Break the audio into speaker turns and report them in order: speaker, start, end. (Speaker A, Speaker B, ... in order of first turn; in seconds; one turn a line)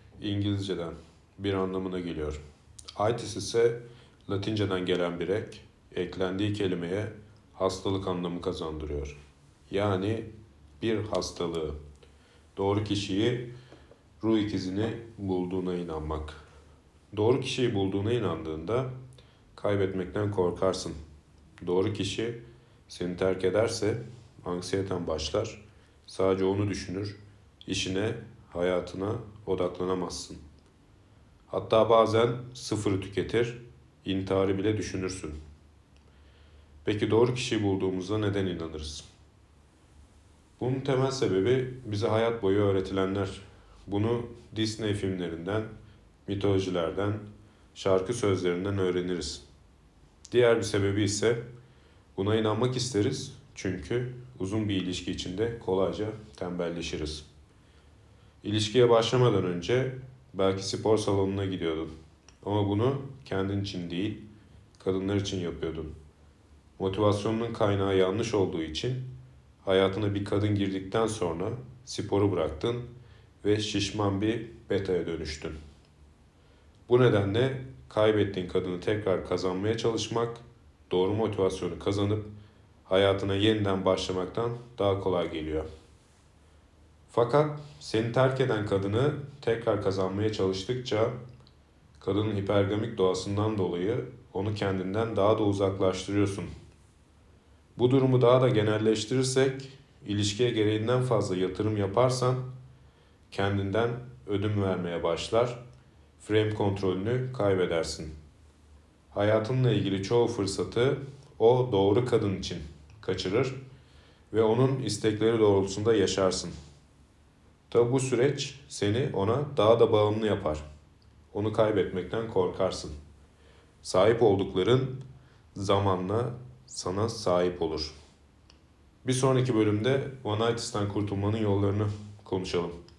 Speaker A: 0.2-2.4
Speaker A: 3.0-9.2
Speaker A: 9.7-10.3
Speaker A: 10.8-11.8
Speaker A: 12.6-13.5
Speaker A: 14.2-16.4
Speaker A: 17.1-18.9
Speaker A: 19.6-21.0
Speaker A: 21.6-30.4
Speaker A: 31.5-35.4
Speaker A: 36.9-39.0
Speaker A: 40.6-45.7
Speaker A: 46.3-49.4
Speaker A: 50.3-51.4
Speaker A: 52.1-57.3
Speaker A: 58.4-61.9
Speaker A: 62.4-64.2
Speaker A: 64.8-66.0
Speaker A: 66.8-72.9
Speaker A: 73.4-75.6
Speaker A: 76.9-82.3
Speaker A: 82.9-85.7
Speaker A: 87.1-91.2
Speaker A: 92.0-96.5
Speaker A: 97.8-102.5
Speaker A: 103.3-105.6
Speaker A: 106.2-108.1
Speaker A: 109.1-113.6
Speaker A: 114.3-116.5
Speaker A: 117.7-120.6
Speaker A: 121.3-122.9
Speaker A: 123.8-125.0
Speaker A: 125.5-127.9
Speaker A: 129.0-132.8